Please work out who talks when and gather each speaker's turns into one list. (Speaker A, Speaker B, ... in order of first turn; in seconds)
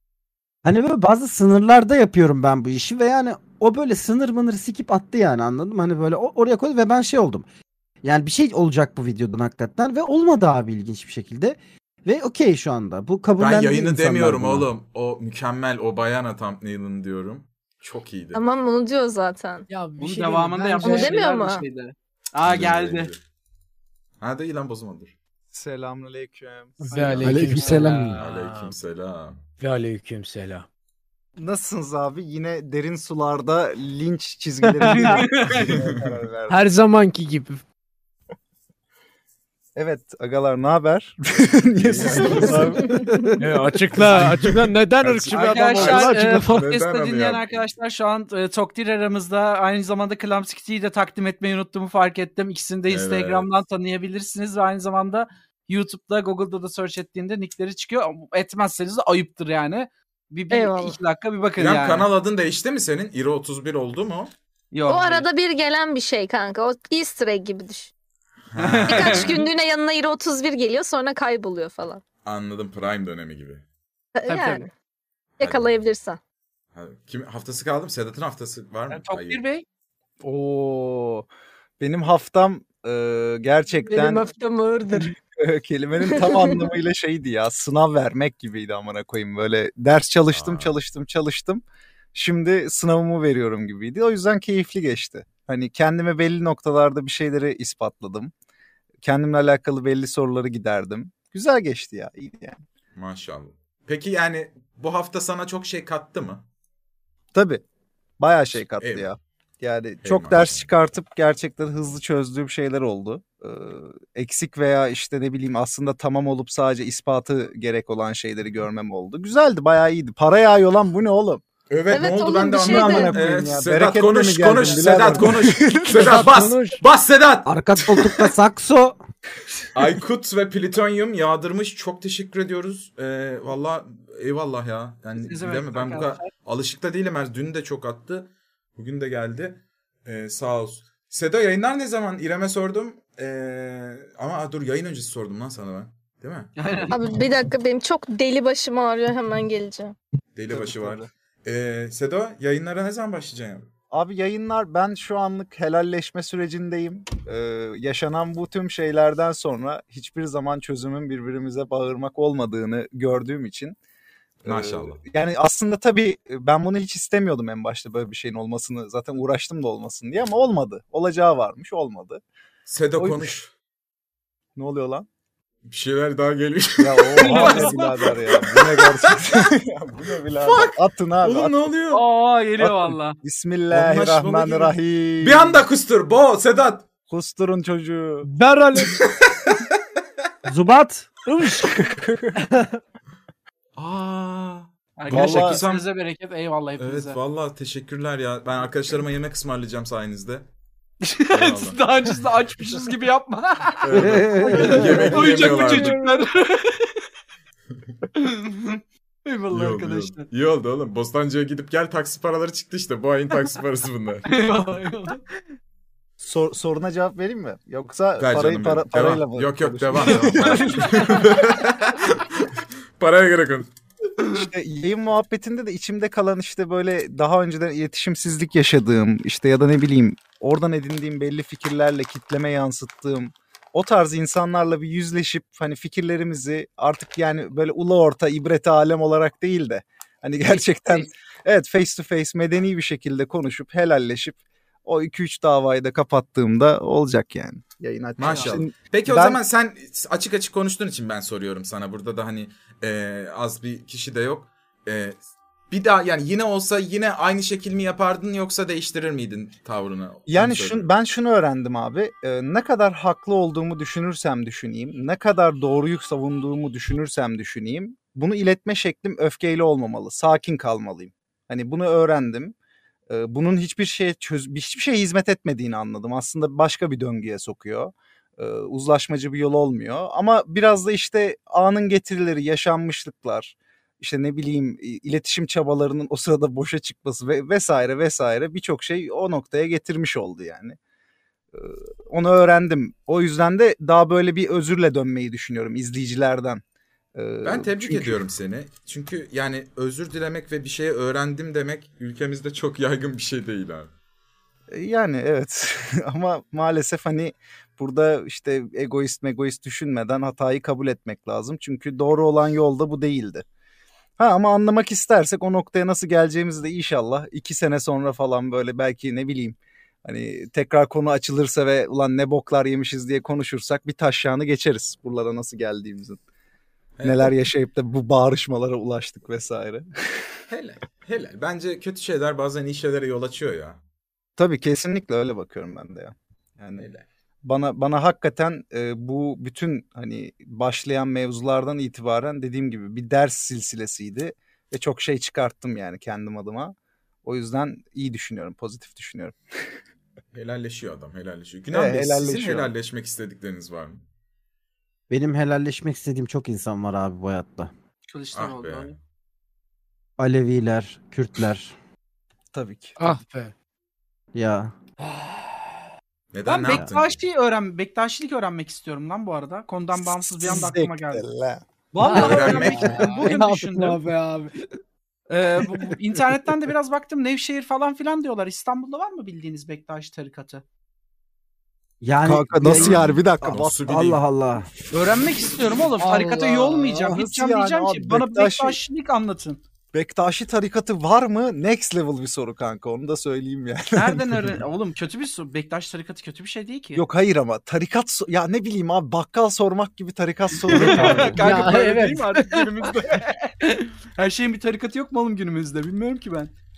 Speaker A: 0.6-7.4, 8.0-14.7, 27.2-28.2, 127.5-129.0, 190.4-191.8, 203.9-205.1, 355.1-357.7, 360.2-361.7, 364.3-364.7, 382.0-384.7, 400.9-401.3
Speaker B: 13.4-18.4, 22.4-23.2, 24.2-25.1, 26.9-29.4, 35.6-36.1, 41.8-42.8, 43.9-47.7, 52.9-53.5, 61.6-64.3, 68.5-69.4, 72.2-73.6, 75.4-75.8, 76.7-79.4, 90.3-90.8, 102.9-106.5, 108.6-109.1, 110.0-110.7, 121.7-128.2, 129.7-146.5, 150.3-153.7, 164.4-165.0, 172.7-173.5, 175.7-179.4, 180.3-182.0, 183.7-186.9, 188.9-189.6, 193.8-195.8, 196.8-200.5, 201.3-201.8, 203.8-206.0, 209.5-214.3, 218.2-223.7, 248.2-255.2, 255.7-260.9, 297.4-303.9, 327.0-327.3, 330.5-333.8, 336.8-337.1, 350.3-354.0, 358.3-358.9, 366.3-367.2, 372.1-373.2, 382.6-384.2
Speaker C: 18.3-19.7, 20.8-21.6, 60.5-61.0, 64.9-67.9, 68.9-72.0, 74.1-74.7, 75.4-76.2, 83.8-85.1, 86.1-86.6, 121.9-123.2, 146.9-149.9
Speaker D: 19.7-21.2, 26.8-28.7, 29.6-30.6, 34.9-35.2, 36.5-37.6, 43.4-46.6, 125.9-126.8, 188.2-189.0, 363.0-363.5, 365.0-365.7, 372.0-374.5, 386.0-386.8, 401.4-402.7
Speaker E: 20.0-23.1, 26.9-28.1, 34.8-35.7, 45.3-62.1, 64.7-65.2, 68.6-69.4, 74.3-74.6, 78.9-79.6, 135.2-136.3, 146.6-147.1, 177.2-178.1, 181.9-183.2, 195.0-197.2, 201.0-207.0, 208.1-210.3, 214.2-215.2, 219.9-221.2, 248.2-248.5, 358.1-358.9, 366.4-371.2, 371.9-374.0, 375.3-380.6, 384.9-389.6, 393.9-397.0, 400.7-406.5
Speaker F: 25.5-26.9, 31.4-36.6, 39.8-43.0, 80.2-81.2, 81.8-84.3, 85.4-91.6, 92.1-98.3, 99.0-102.6, 107.3-107.6, 108.2-121.4, 122.6-126.2, 150.5-151.0, 153.9-163.8, 164.4-172.2, 173.0-173.3, 174.6-175.1, 176.8-181.6, 182.6-185.6, 187.1-188.3, 195.1-195.6, 204.9-205.7, 216.2-221.0, 224.3-249.4, 260.3-272.5, 273.1-290.8, 291.5-296.6, 297.1-298.2, 304.7-313.4, 314.2-326.2, 327.0-329.9, 334.4-336.9, 337.4-349.3, 351.7-352.7, 362.5-363.1, 369.9-371.6, 372.4-372.7, 382.2-383.9, 386.2-388.8, 389.9-394.6, 396.9-401.6